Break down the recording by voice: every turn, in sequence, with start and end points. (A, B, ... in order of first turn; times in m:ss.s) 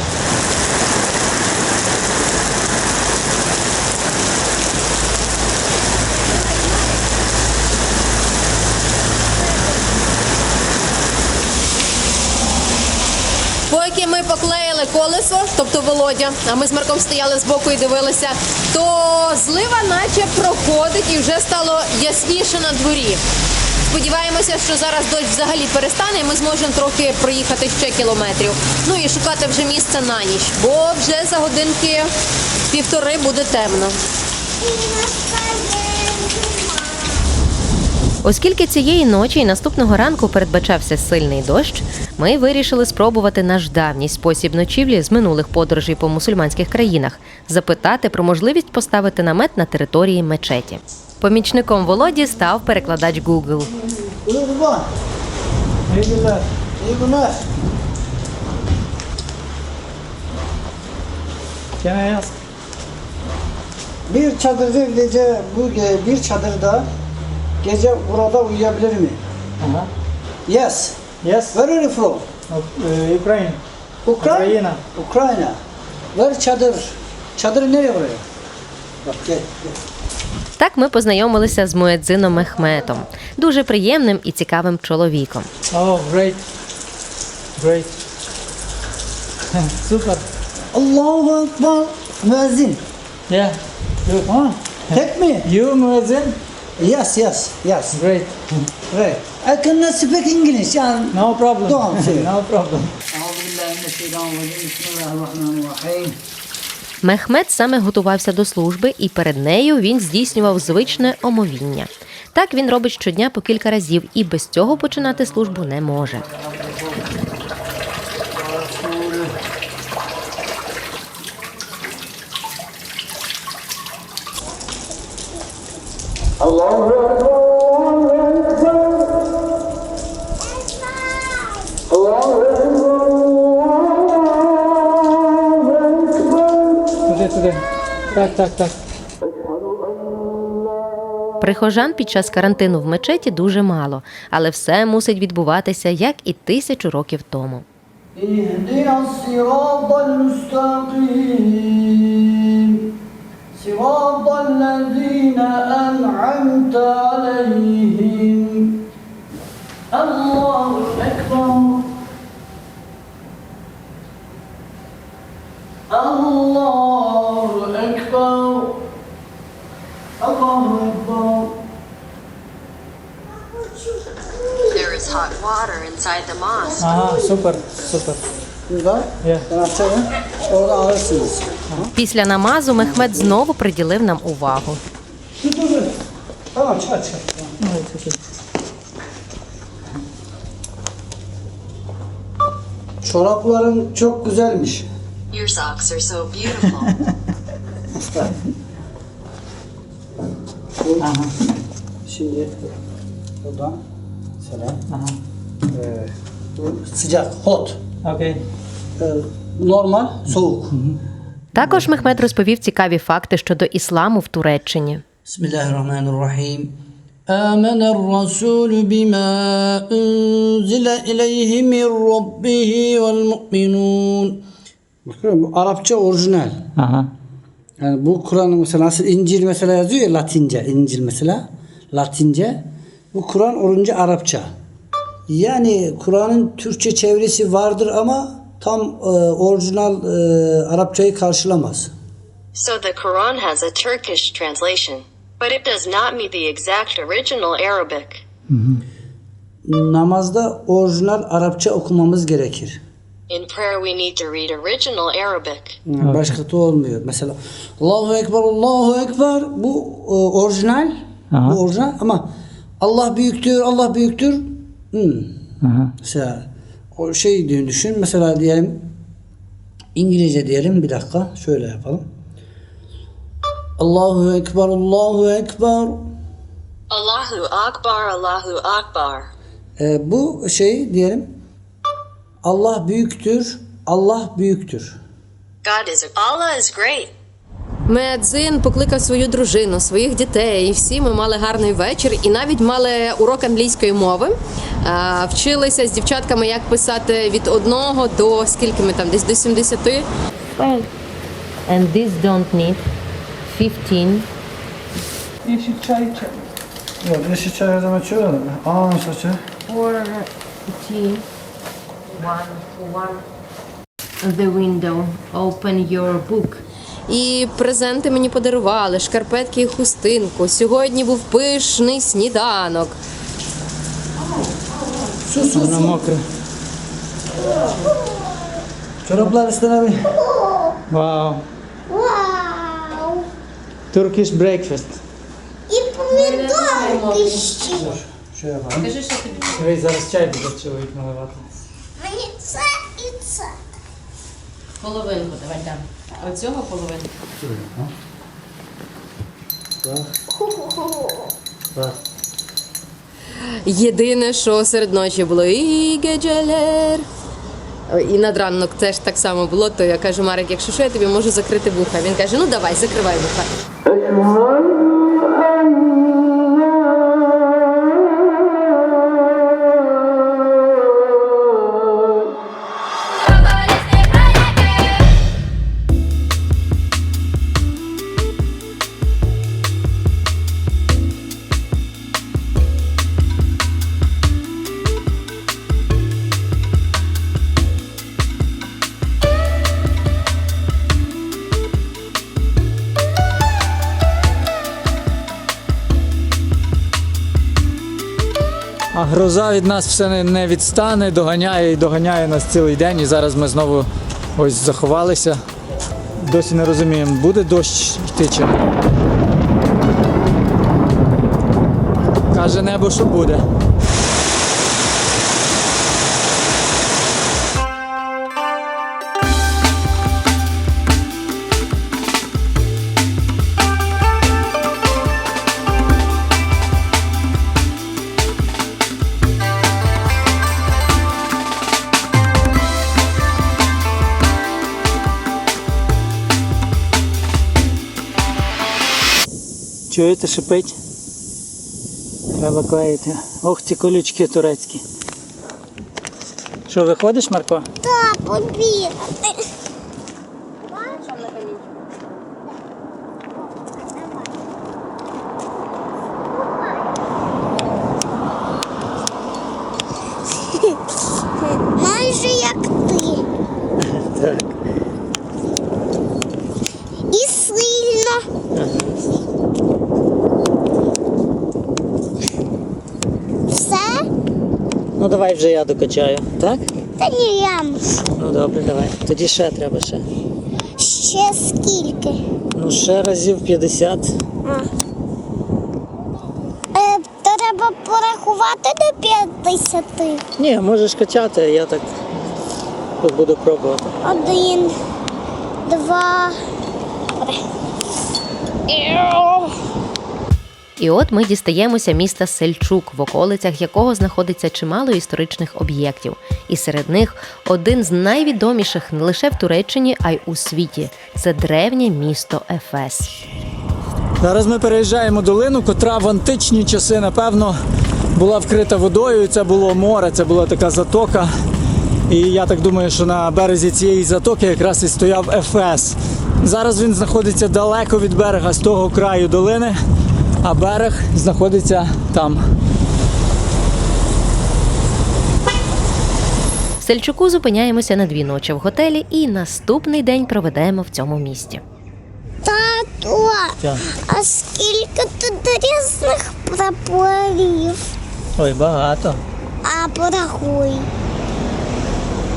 0:13.7-0:23.2 A
0:23.9-0:32.1 A
0:32.7-0:34.0 A
0:34.6-0:37.2 B
0:38.2-0:53.7 C
0:53.8-0:54.9 D
0:55.9-0:56.4 E
0:56.8-0:57.4 D
1:01.8-1:02.3 E
1:04.1-1:06.9 D
1:07.6-1:09.2 D
1:09.6-1:09.9 E
1:10.4-1:11.0 D
1:11.2-1:11.6 E
1:11.5-1:12.3 D
1:12.5-1:13.6 E
1:14.0-1:15.6 D
1:14.2-1:14.8 E
1:16.1-1:18.2 D
1:19.0-1:19.8 D
1:20.6-1:25.5 C
1:25.7-1:26.4 E
1:27.6-1:27.9 E
1:29.5-1:30.2 E
1:30.7-1:32.8 D
1:33.3-1:36.4 E
1:34.9-1:35.5 D
1:36.8-1:38.0 D
1:37.9-1:38.6 E
1:38.9-1:42.3 D
1:41.1-1:42.9 E
1:43.1-1:46.2 D
1:47.0-1:56.2 C
1:56.3-1:57.0 D
1:58.3-1:59.3 D
2:10.6-2:11.5 B
2:17.0-2:18.7 E
2:21.4-2:27.6 C
2:28.2-2:32.9 D
2:33.5-2:38.8 D
2:39.9-2:42.0 D
2:45.9-2:48.9 D
2:50.2-2:51.6 D
2:54.7-2:56.9 F
2:56.8-2:58.2 E
2:58.7-3:01.9 D
3:02.0-3:04.8 C
3:02.8-3:03.3 D
3:05.4-3:06.0 D
3:06.5-3:07.5 D
3:07.6-3:08.2 E
3:13.0-3:14.8 D
3:15.3-3:16.9 F
3:18.0-3:18.3 D
3:20.8-3:21.1 D
3:21.0-3:21.3 E
3:22.0-3:22.6 D
3:23.4-3:23.8 D
3:24.4-3:24.8 D
3:24.9-3:25.2 E
3:25.7-3:27.8 D
3:28.0-3:28.4 E
3:29.0-3:30.8 D
3:31.5-3:35.0 C
3:35.2-3:36.8 D
3:37.3-3:44.4 D
3:45.0-3:46.6 D
3:46.8-3:47.1 E
3:47.8-3:54.5 D
3:55.3-4:01.9 D
4:02.5-4:08.2 F
4:08.5-4:08.8 E
4:09.6-4:12.8 D
4:13.3-4:15.8 F
4:15.9-4:25.4 D
4:16.0-4:16.4 E
4:21.3-4:21.6 E
4:25.6-4:25.9 E
4:26.0-4:28.9 D
4:29.9-4:32.1 D
4:33.8-4:36.1 D
4:36.9-4:39.3 F
4:39.8-4:41.3 D
4:42.4-4:45.0 D
4:45.6-4:47.1 F
4:47.8-5:00.0 A
5:00.6-5:00.9 B
5:01.7-5:02.8 C
5:03.5-5:04.3 C
5:05.4-5:06.2 E
5:07.0-5:09.4 D
5:09.7-5:11.2 C
5:12.1-5:13.2 C
5:14.2-5:16.6 C
5:17.1-5:23.0 A
5:25.2-5:26.0 D
5:25.4-5:26.2 E
5:27.4-5:28.4 B
5:29.0-5:30.1 D
5:30.1-5:30.8 B
5:30.9-5:31.4 E
5:31.9-5:33.2 B
5:33.9-5:35.0 E
5:35.7-5:37.8 B
5:36.1-5:37.9 A
5:37.8-5:38.9 D
5:38.8-5:39.6 A
5:39.5-5:41.5 E
5:42.0-5:43.5 B
5:44.8-5:47.1 A
5:47.4-5:47.9 D
5:49.8-5:50.2 D
5:50.3-5:51.3 B
5:53.3-5:57.0 A
5:57.9-6:03.5 A
6:38.9-6:45.4 E
6:46.2-6:48.6 E
6:52.3-6:53.4 E
7:19.9-7:20.7 E
7:22.4-7:24.8 E
7:26.7-7:27.7 E
7:27.8-7:29.4 B
7:30.7-7:31.3 B
7:31.1-7:31.6 A
7:33.5-7:34.3 B
7:36.3-7:36.9 B
7:40.4-7:40.8 B
7:41.7-7:43.2 B
7:43.8-7:44.5 E
7:47.1-7:48.2 B
7:48.5-7:49.0 E
7:53.5-7:54.0 B
7:55.0-7:56.7 E
7:57.0-7:58.0 B
7:58.2-8:00.0 E
8:00.8-8:02.2 B
8:02.5-8:04.2 E
8:06.7-8:10.2 B
8:10.4-8:12.0 E
8:13.0-8:14.0 E
8:14.0-8:14.7 B
8:15.6-8:16.4 B
8:18.7-8:19.5 B
8:20.8-8:33.1 C
8:34.2-8:37.6 E
8:38.1-8:41.3 E
8:42.1-8:49.8 E
8:50.4-8:52.4 E
8:56.8-9:01.6 C
9:02.4-9:07.8 B
9:08.4-9:09.2 E
9:09.6-9:10.9 B